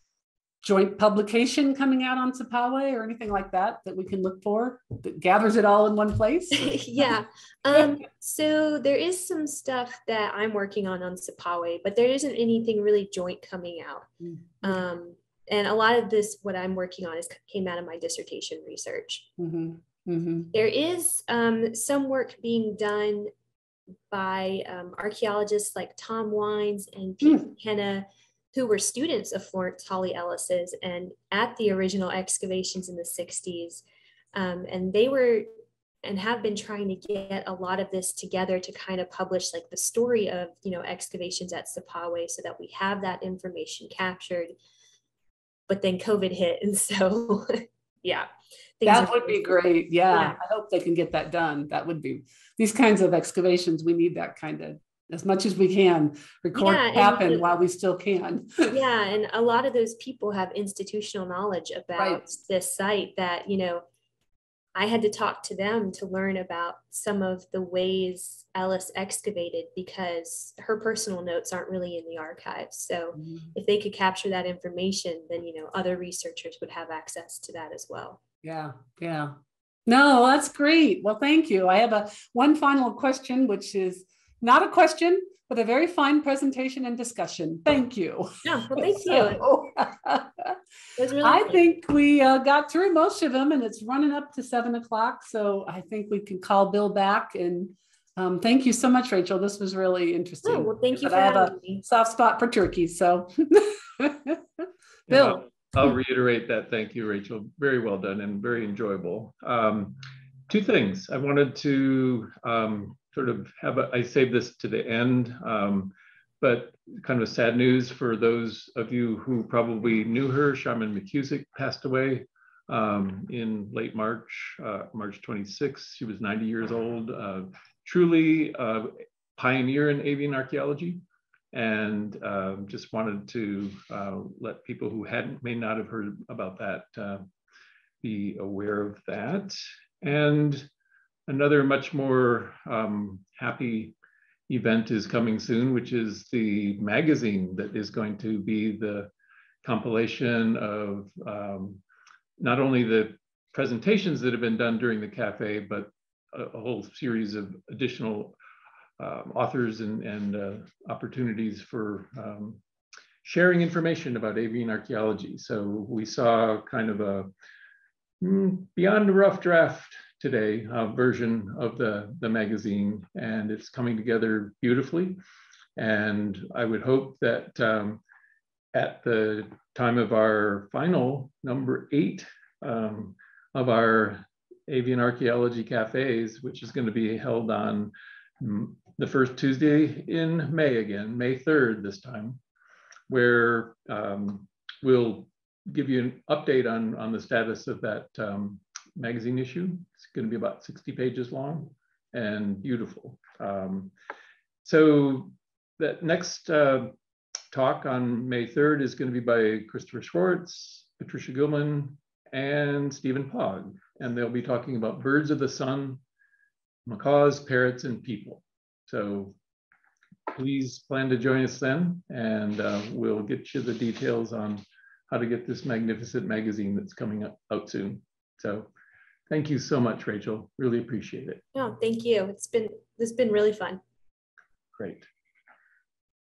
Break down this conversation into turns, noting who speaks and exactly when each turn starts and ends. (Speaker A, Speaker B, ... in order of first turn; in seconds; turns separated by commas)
Speaker A: 0.6-7.1, Speaker B: 6.5-14.1, Speaker A: 14.2-14.7, Speaker B: 14.6-19.3, Speaker A: 19.4-20.5, Speaker B: 20.5-23.3, Speaker B: 24.1-33.8, Speaker B: 34.3-35.5, Speaker B: 36.0-44.5, Speaker B: 45.7-48.3, Speaker B: 48.8-49.6, Speaker A: 48.8-58.8, Speaker B: 50.1-50.4, Speaker B: 56.5-57.4, Speaker B: 58.7-63.8, Speaker A: 62.0-62.2, Speaker B: 64.7-78.2, Speaker A: 73.2-73.5, Speaker A: 78.4-79.3, Speaker A: 79.9-90.6, Speaker B: 88.4-89.5, Speaker B: 91.0-91.7, Speaker A: 91.2-105.4, Speaker B: 100.4-101.8, Speaker C: 105.1-131.0, Speaker C: 131.5-137.3, Speaker C: 138.0-140.7, Speaker C: 141.3-143.9, Speaker C: 144.5-149.1, Speaker C: 149.6-151.8, Speaker C: 152.4-158.3, Speaker C: 159.0-162.6, Speaker C: 163.2-167.3, Speaker C: 168.2-175.2, Speaker C: 175.8-178.0, Speaker C: 178.7-192.4, Speaker C: 193.1-203.9, Speaker C: 204.6-206.9, Speaker C: 207.5-216.0, Speaker C: 216.8-219.3, Speaker C: 220.3-228.7, Speaker C: 229.3-231.4, Speaker B: 231.5-233.8, Speaker C: 234.7-235.1